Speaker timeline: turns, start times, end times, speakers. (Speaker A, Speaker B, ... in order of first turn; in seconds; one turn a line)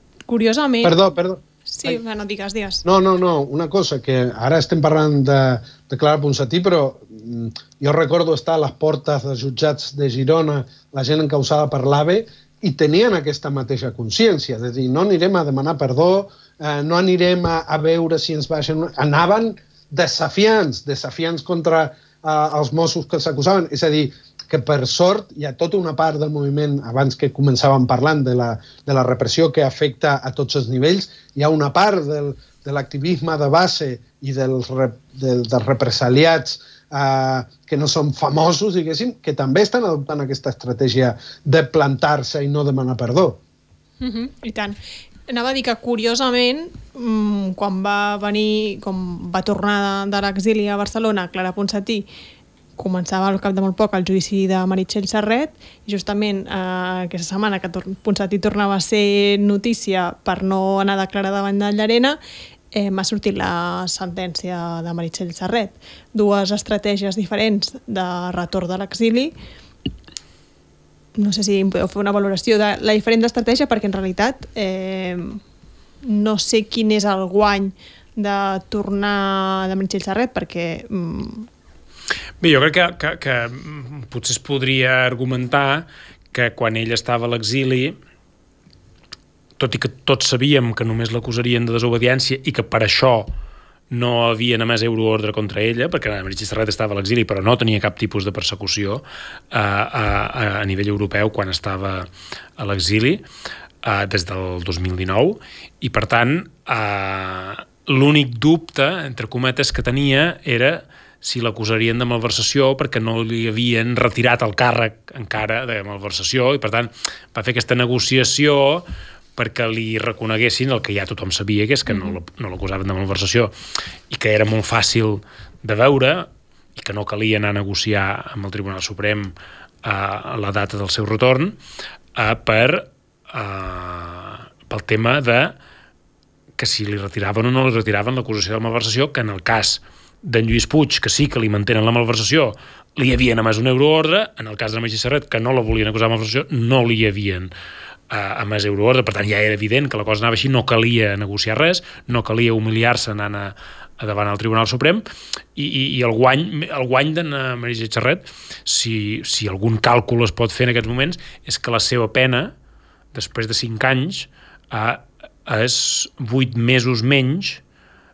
Speaker A: 0.3-1.0
Speaker B: 0.8-2.0
Speaker A: 1.7-2.8
Speaker B: 2.8-43.4
Speaker A: 44.0-44.8
Speaker A: 45.3-52.1
Speaker A: 52.8-62.2
Speaker A: 62.7-69.3
Speaker A: 71.1-75.4
Speaker A: 76.0-81.5
Speaker C: 82.4-88.0
Speaker C: 89.6-93.3
Speaker C: 93.9-103.2
Speaker C: 103.8-123.5
Speaker A: 121.9-122.2
Speaker C: 124.1-129.3
Speaker C: 129.8-131.6
Speaker C: 132.2-135.6
Speaker C: 136.6-147.5
Speaker C: 148.1-155.0
Speaker C: 155.6-162.5
Speaker C: 163.1-167.6